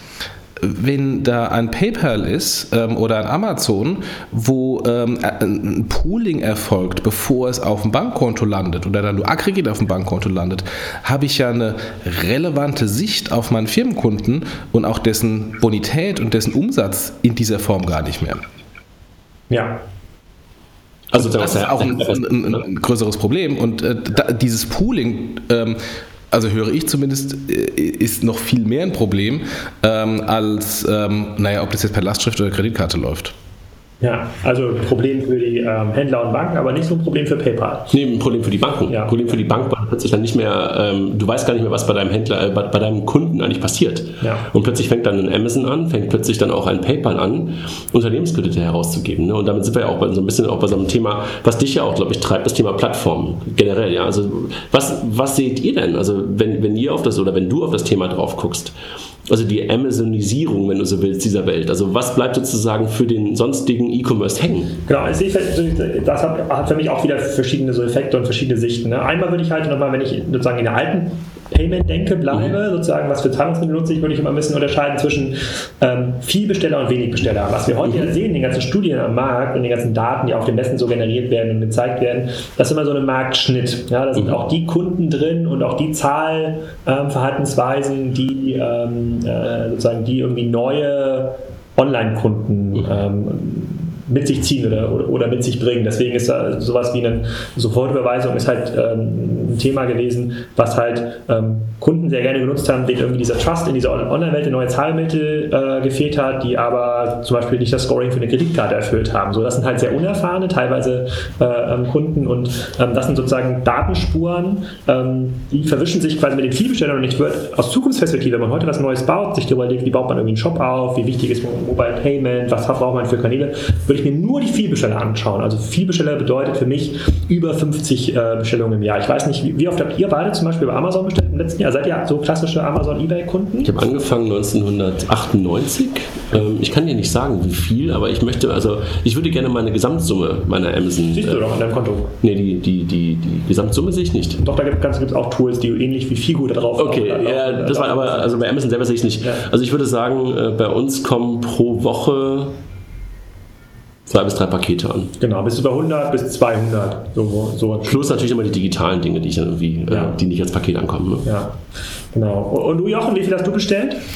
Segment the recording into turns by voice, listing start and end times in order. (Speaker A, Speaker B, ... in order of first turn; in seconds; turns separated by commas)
Speaker A: 0.6-18.4, Speaker B: 19.5-19.8, Speaker C: 21.1-22.6, Speaker A: 21.2-25.8, Speaker A: 26.3-33.3, Speaker B: 34.0-37.9, Speaker C: 37.9-58.8, Speaker B: 38.9-39.2, Speaker B: 44.2-44.5, Speaker C: 59.3-64.8, Speaker B: 64.9-133.7, Speaker C: 133.6-141.4, Speaker B: 141.1-142.2, Speaker C: 142.2-144.4, Speaker B: 144.4-148.3, Speaker C: 146.8-152.6, Speaker C: 154.1-155.1, Speaker B: 155.2-158.3, Speaker C: 157.9-161.3, Speaker B: 159.9-160.2, Speaker B: 161.3-161.6, Speaker B: 162.1-164.0